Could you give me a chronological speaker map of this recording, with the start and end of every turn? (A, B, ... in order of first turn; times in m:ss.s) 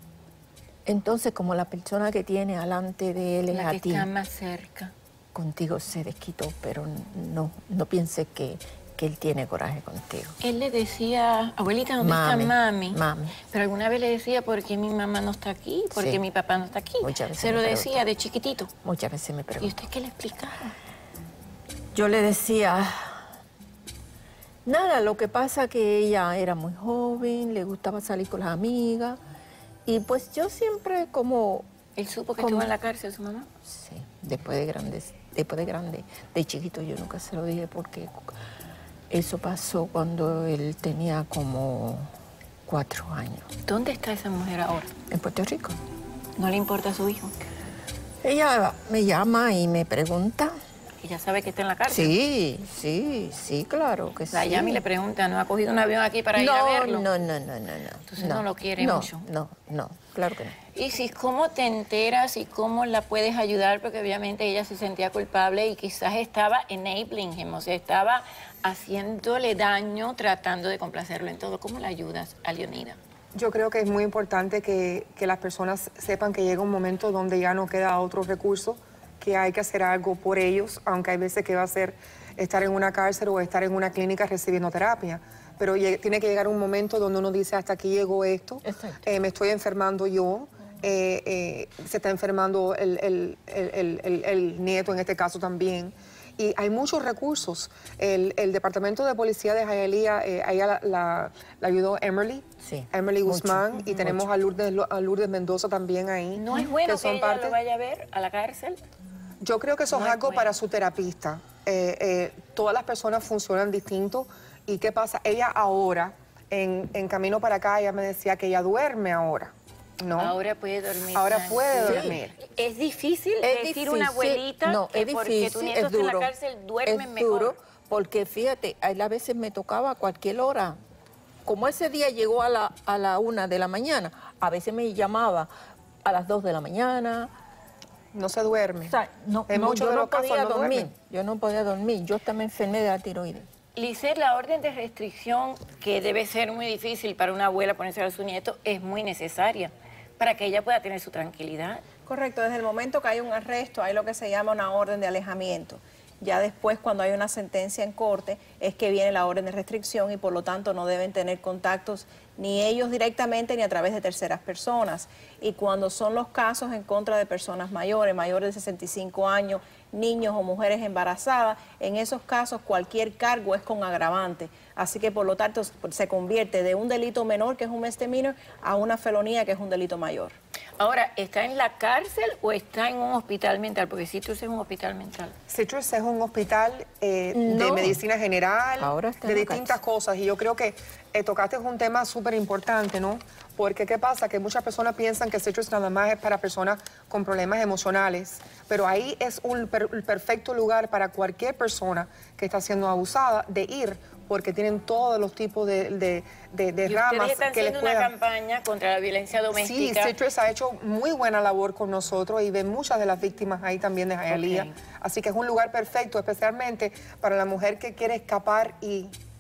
0:00.9-0:04.1 A
0:03.5-0:04.9 B
0:05.4-0:10.4 A
0:10.4-0:18.7 B
0:12.0-0:13.4 A
0:15.9-0:16.2 A
0:17.0-0:18.0 A
0:18.8-0:19.7 A
0:19.6-0:20.8 B
0:21.9-0:23.2 A
0:24.6-0:29.2 A
0:29.9-0:31.7 A
0:32.0-0:33.5 B
0:32.4-0:32.7 A
0:33.6-0:38.3 A
0:39.1-0:42.1 A
0:42.7-0:43.5 A
0:43.6-0:44.9 B
0:45.1-0:45.8 A
0:46.4-0:47.4 B
0:48.2-0:50.6 A
0:51.0-0:52.2 B
0:51.9-0:54.8 A
0:54.3-0:57.1 B
0:56.4-1:00.6 A
0:58.1-0:59.2 B
1:00.7-1:13.0 B
1:13.4-1:47.6 C
1:28.6-1:29.0 A
1:42.6-1:44.3 A
1:46.4-1:48.8 B
1:49.4-2:00.4 C
1:49.9-1:50.6 B
2:00.2-2:07.6 B
2:01.1-2:02.4 C
2:01.8-2:02.2 A
2:03.4-2:06.3 A
2:06.9-2:10.8 A
2:11.4-2:15.5 A
2:16.0-2:17.3 A
2:18.1-2:19.0 C
2:18.8-2:23.5 A
2:19.5-2:20.9 C
2:23.8-2:31.8 B
2:32.1-3:00.3 D
3:00.8-3:05.4 B
3:05.5-3:28.1 C
3:07.3-3:08.0 A
3:08.8-3:09.8 A
3:26.8-3:30.2 B
3:29.5-3:39.1 C
3:34.3-3:34.8 B